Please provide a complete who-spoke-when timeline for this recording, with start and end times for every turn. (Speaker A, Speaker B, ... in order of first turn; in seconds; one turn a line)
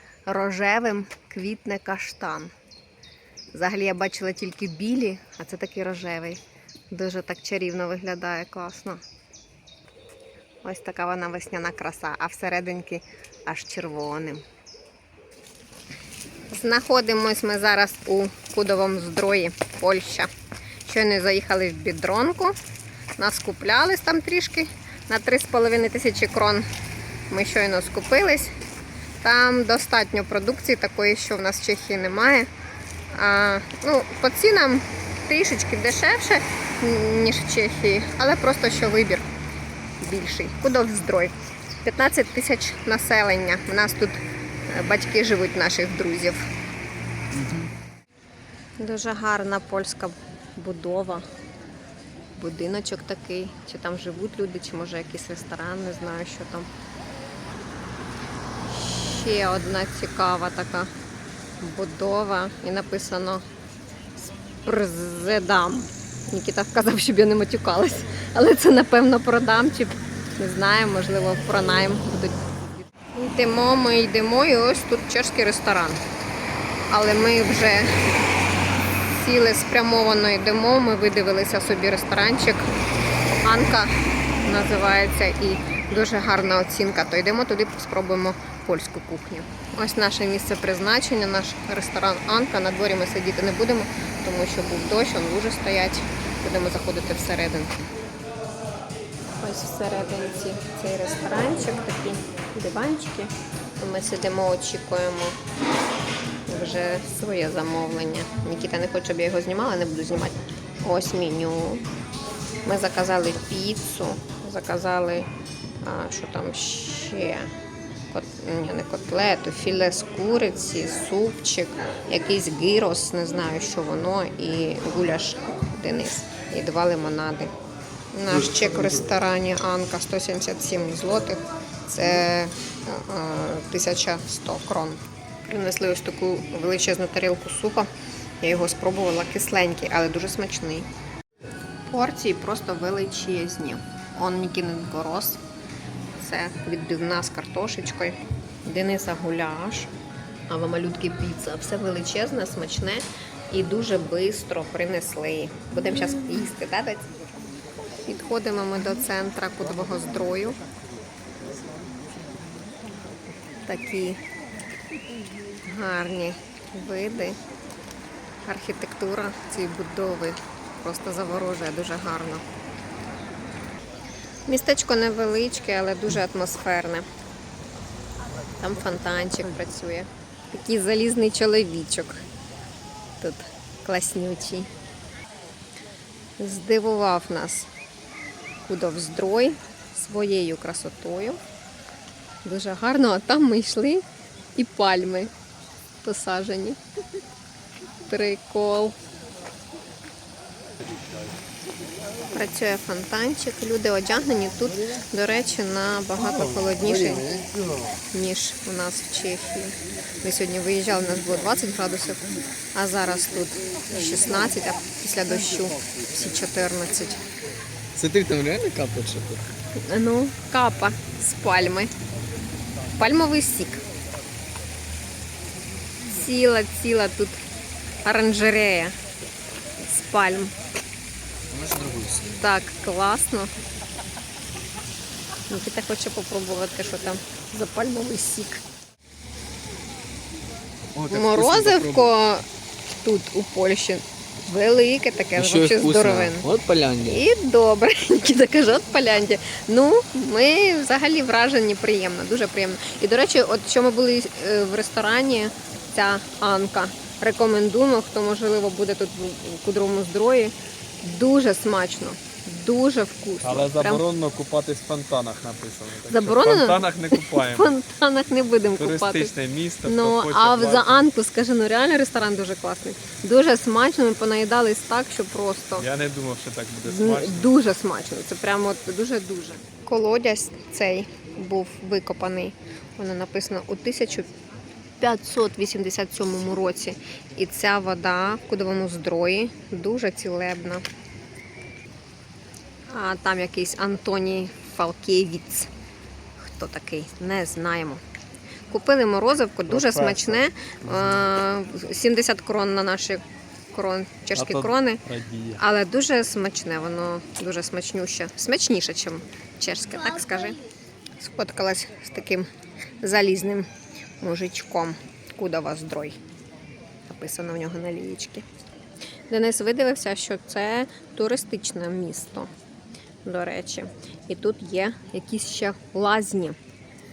Speaker A: 0.3-2.5
Speaker A: 3.5-9.0
Speaker A: 10.6-14.4
Speaker A: 16.5-20.3
Speaker A: 20.9-22.6
Speaker A: 23.2-26.6
Speaker A: 27.3-28.5
Speaker A: 29.2-32.5
Speaker A: 33.1-39.2
Speaker A: 40.0-46.4
Speaker B: 47.3-47.7
Speaker A: 48.8-51.2
Speaker A: 52.3-56.7
Speaker A: 58.6-60.9
Speaker A: 61.6-63.4
Speaker A: 64.6-76.0
Speaker A: 76.9-77.9
Speaker A: 79.1-82.7
Speaker A: 83.4-97.9
Speaker A: 99.4-105.4
Speaker A: 106.5-111.9
Speaker A: 112.6-115.3
Speaker A: 115.8-117.5
Speaker A: 118.1-127.5
Speaker A: 128.1-137.9
Speaker A: 138.4-140.9
Speaker A: 141.9-145.4
Speaker A: 146.2-149.9
Speaker A: 150.5-157.1
Speaker A: 158.0-160.6
Speaker A: 163.7-164.2
Speaker A: 165.6-167.4
Speaker A: 168.4-172.4
Speaker A: 174.5-177.1
Speaker A: 178.6-182.2
Speaker A: 183.2-184.7
Speaker A: 186.4-187.7
Speaker A: 188.6-191.4
Speaker A: 192.4-194.0
Speaker A: 194.6-195.3
Speaker A: 196.0-196.8
Speaker A: 198.1-198.9
Speaker A: 202.3-207.4
Speaker A: 208.1-217.2
Speaker B: 217.9-219.5
Speaker A: 219.8-221.9
Speaker A: 223.0-223.8
Speaker A: 226.0-227.4
Speaker A: 228.0-228.9
Speaker A: 229.8-230.5
Speaker B: 231.5-232.4
Speaker A: 232.3-233.5
Speaker A: 235.5-238.6
Speaker B: 240.9-242.1
Speaker A: 241.1-242.4
Speaker A: 243.0-246.5
Speaker B: 245.3-247.2
Speaker A: 247.0-264.0
Speaker C: 263.4-267.7
Speaker A: 266.1-269.3
Speaker C: 268.8-271.0
Speaker A: 269.8-275.9
Speaker C: 275.8-277.5
Speaker A: 276.8-284.3
Speaker A: 285.0-290.8
Speaker A: 292.9-295.7
Speaker A: 296.4-298.0
Speaker A: 298.7-305.0
Speaker C: 299.7-300.4
Speaker C: 304.4-305.6
Speaker A: 305.6-310.6
Speaker A: 311.2-312.5
Speaker A: 313.0-313.7
Speaker A: 314.2-316.2
Speaker A: 317.0-318.4
Speaker A: 319.3-322.5
Speaker A: 323.2-326.6